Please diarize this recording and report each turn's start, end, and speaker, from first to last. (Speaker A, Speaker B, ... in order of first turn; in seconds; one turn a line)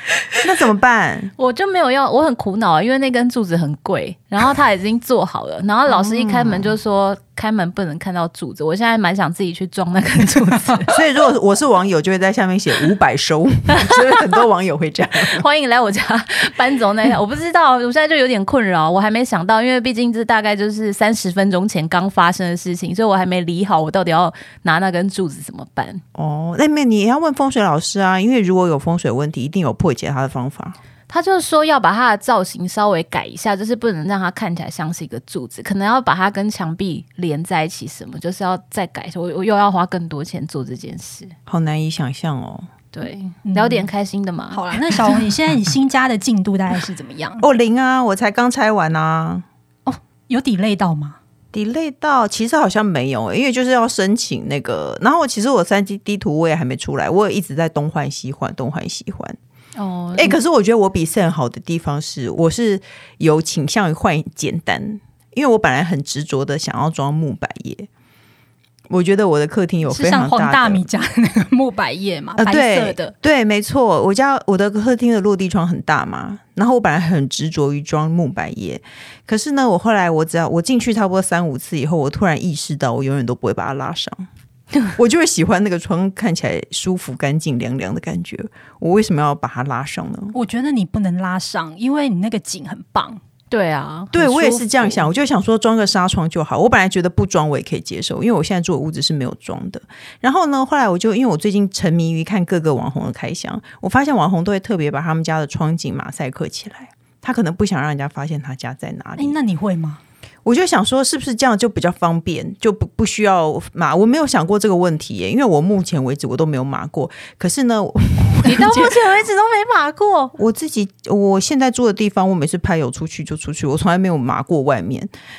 Speaker A: 0.4-1.3
Speaker B: 1.4-10.9
Speaker A: 5.9-6.7
Speaker A: 10.9-15.4
Speaker B: 15.3-26.0
Speaker A: 26.1-30.8
Speaker B: 31.1-41.3
Speaker A: 41.5-42.7
Speaker B: 42.9-44.6
Speaker C: 43.4-43.9
Speaker C: 44.5-47.5
Speaker A: 47.4-49.5
Speaker C: 49.9-51.2
Speaker A: 51.5-59.4
Speaker B: 59.8-60.4
Speaker A: 60.2-67.9
Speaker A: 68.9-70.8
Speaker C: 69.9-73.1
Speaker A: 72.4-84.3
Speaker A: 85.0-90.3
Speaker C: 90.3-93.2
Speaker B: 93.5-95.1
Speaker A: 94.1-109.4
Speaker C: 109.2-110.0
Speaker A: 110.5-119.0
Speaker B: 118.4-120.3
Speaker A: 120.4-125.1